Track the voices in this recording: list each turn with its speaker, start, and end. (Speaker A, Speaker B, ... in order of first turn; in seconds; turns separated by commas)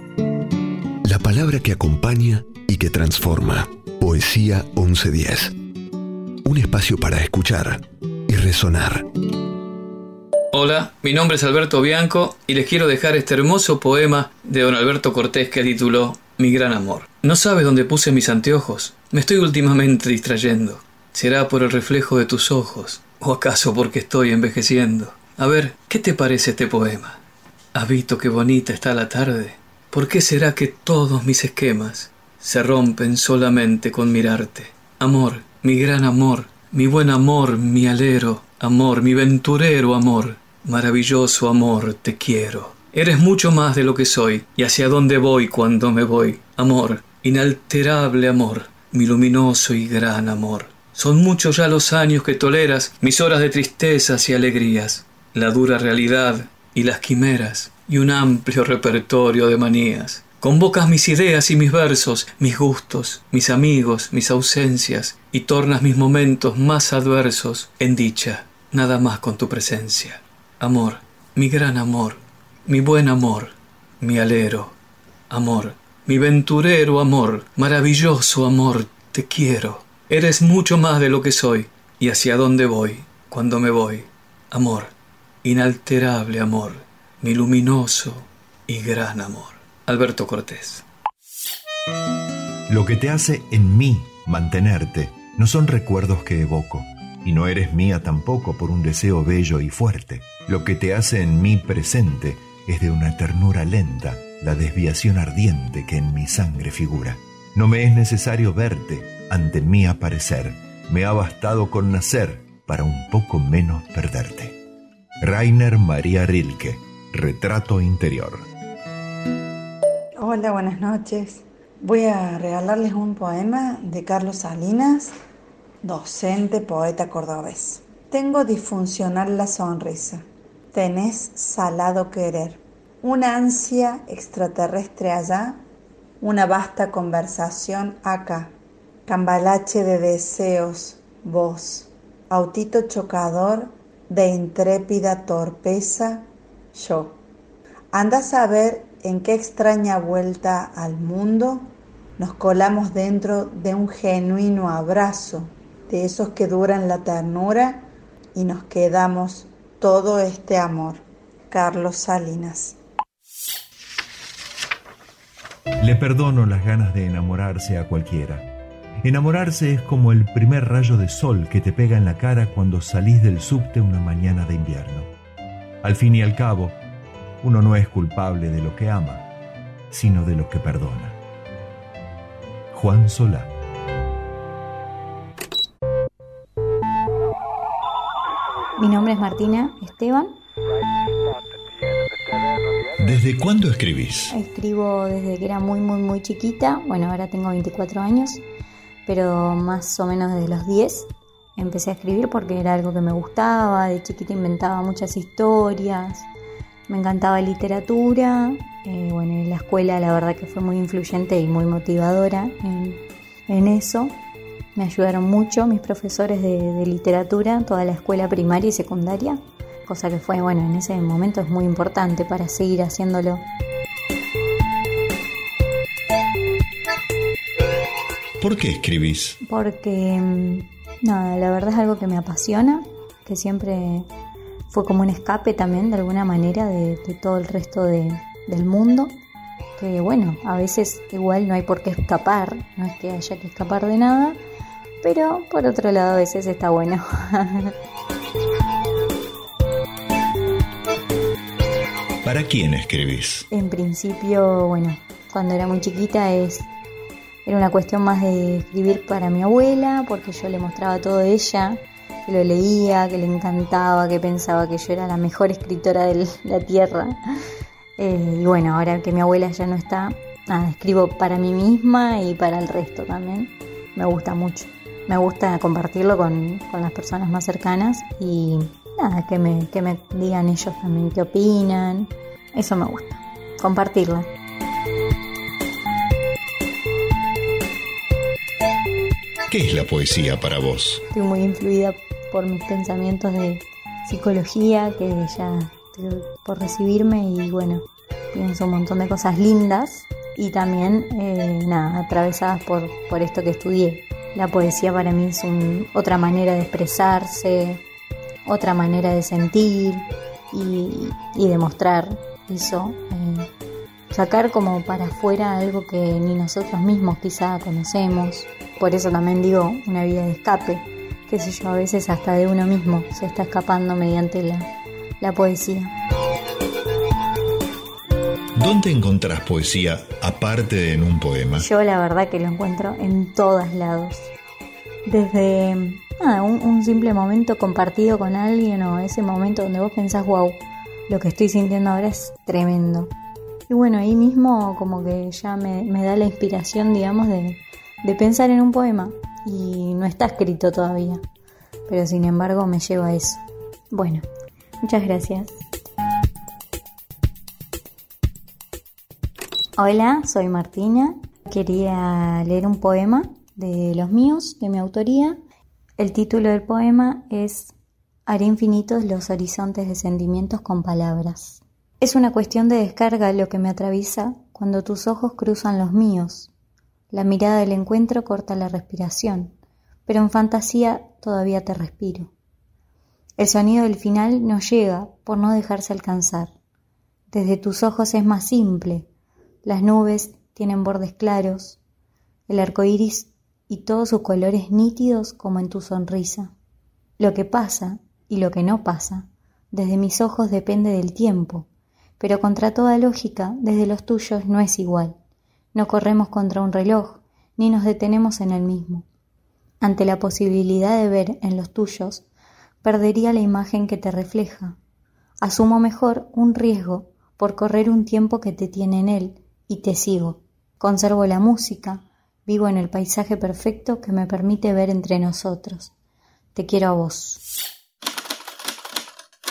Speaker A: 1.1-5.5, Speaker A: 6.5-9.1, Speaker B: 10.5-27.2, Speaker B: 27.7-74.7, Speaker B: 75.3-84.9, Speaker B: 85.4-90.8, Speaker C: 92.7-114.6, Speaker C: 115.2-118.5, Speaker D: 120.2-125.2, Speaker D: 125.8-135.6, Speaker D: 136.2-138.5, Speaker D: 139.1-147.2, Speaker D: 147.9-162.7, Speaker C: 165.8-168.5, Speaker C: 169.0-175.1, Speaker C: 175.8-176.8, Speaker C: 177.4-179.2, Speaker C: 179.9-181.2, Speaker C: 182.7-183.5, Speaker E: 188.8-190.4, Speaker C: 193.0-194.3, Speaker E: 194.3-198.4, Speaker E: 199.1-206.3, Speaker E: 206.9-214.2, Speaker E: 214.8-223.4, Speaker C: 228.4-229.4, Speaker E: 229.4-234.1, Speaker E: 234.7-239.2, Speaker E: 239.8-244.4, Speaker E: 245.0-247.7, Speaker C: 252.2-253.5, Speaker E: 253.5-256.7, Speaker E: 257.5-267.2, Speaker E: 268.0-284.3, Speaker C: 289.5-291.0, Speaker E: 291.1-307.8, Speaker E: 308.5-313.5, Speaker E: 314.1-324.7, Speaker E: 325.2-325.9, Speaker C: 328.6-331.7, Speaker E: 331.6-334.3, Speaker E: 335.1-343.1, Speaker E: 343.7-351.2, Speaker E: 351.9-354.3, Speaker E: 354.8-355.6, Speaker E: 359.8-365.4, Speaker E: 366.0-367.7, Speaker E: 368.3-376.5, Speaker E: 377.1-379.6, Speaker E: 380.1-382.3, Speaker E: 383.4-386.5, Speaker E: 387.3-389.1, Speaker E: 389.6-391.8, Speaker E: 392.5-396.5, Speaker E: 397.2-401.7, Speaker E: 402.2-405.2, Speaker E: 405.7-409.1, Speaker E: 409.8-412.2, Speaker E: 412.8-414.8, Speaker E: 415.4-425.9, Speaker E: 426.6-427.4